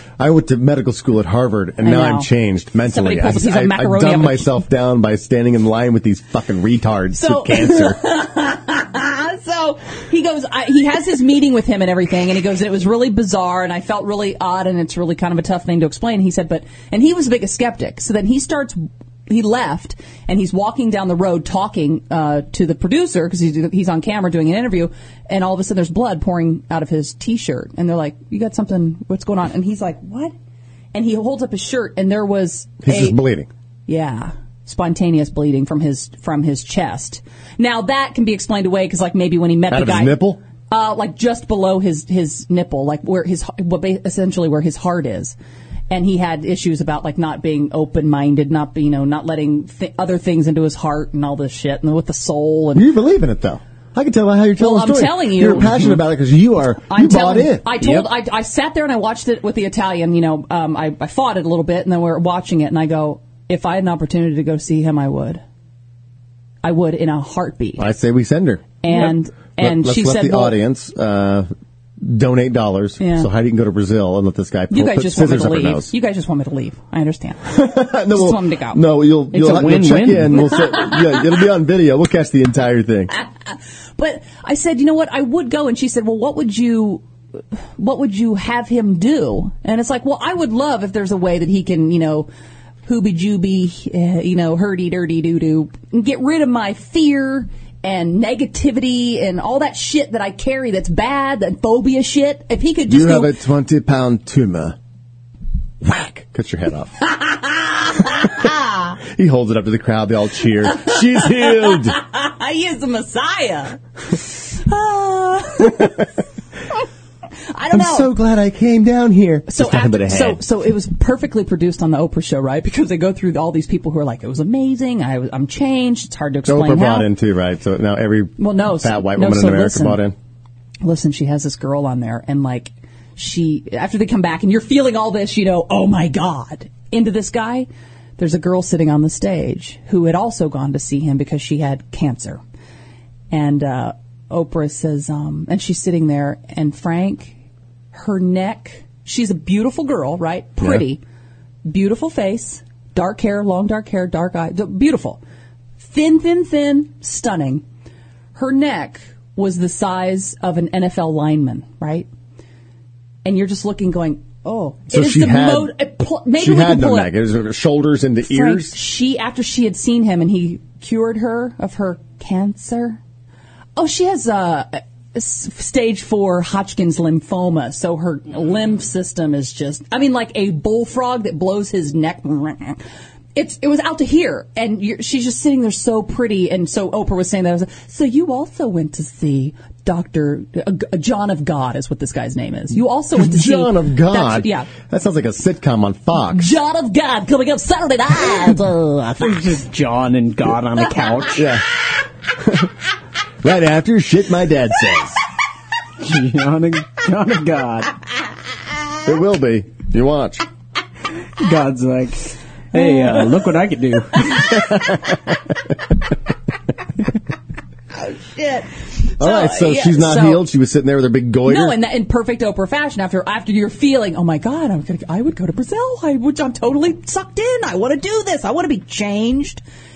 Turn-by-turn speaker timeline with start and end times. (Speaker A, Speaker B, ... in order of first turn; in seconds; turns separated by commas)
Speaker A: 0.2-8.0, Speaker B: 1.8-2.3, Speaker B: 2.8-4.5, Speaker B: 7.2-30.3, Speaker B: 30.9-33.2, Speaker A: 32.8-33.5, Speaker B: 33.9-45.4, Speaker A: 39.7-40.4, Speaker B: 45.9-52.9, Speaker A: 52.8-58.0, Speaker B: 54.6-56.0, Speaker B: 56.9-65.4, Speaker B: 66.6-67.8, Speaker A: 67.8-71.5, Speaker B: 68.8-70.6, Speaker A: 72.0-75.9, Speaker B: 73.0-73.3, Speaker B: 74.7-78.8, Speaker A: 77.5-83.1, Speaker C: 79.3-80.5, Speaker B: 83.2-87.0, Speaker B: 87.8-92.3, Speaker B: 92.8-103.3, Speaker A: 102.9-104.8, Speaker A: 105.8-107.0, Speaker B: 107.6-108.9, Speaker A: 109.1-112.0, Speaker B: 111.6-116.0, Speaker B: 117.5-118.1, Speaker A: 117.7-120.4, Speaker B: 119.5-127.1, Speaker A: 126.5-130.2, Speaker B: 128.4-130.0, Speaker B: 130.8-142.4, Speaker B: 143.3-147.4, Speaker B: 147.9-151.0, Speaker B: 151.7-155.2, Speaker B: 155.8-157.6, Speaker B: 158.3-162.1, Speaker B: 163.2-167.1, Speaker A: 164.9-165.8, Speaker A: 166.4-168.8, Speaker B: 168.2-173.0, Speaker B: 173.8-182.8, Speaker B: 183.3-194.7, Speaker A: 193.1-196.6, Speaker B: 196.3-199.4, Speaker C: 199.2-201.5, Speaker A: 201.3-201.7, Speaker A: 202.4-202.7, Speaker A: 203.4-205.2, Speaker C: 206.0-207.9, Speaker A: 209.1-210.4, Speaker C: 211.4-214.6, Speaker B: 217.9-220.5, Speaker A: 219.2-221.8, Speaker B: 221.5-229.6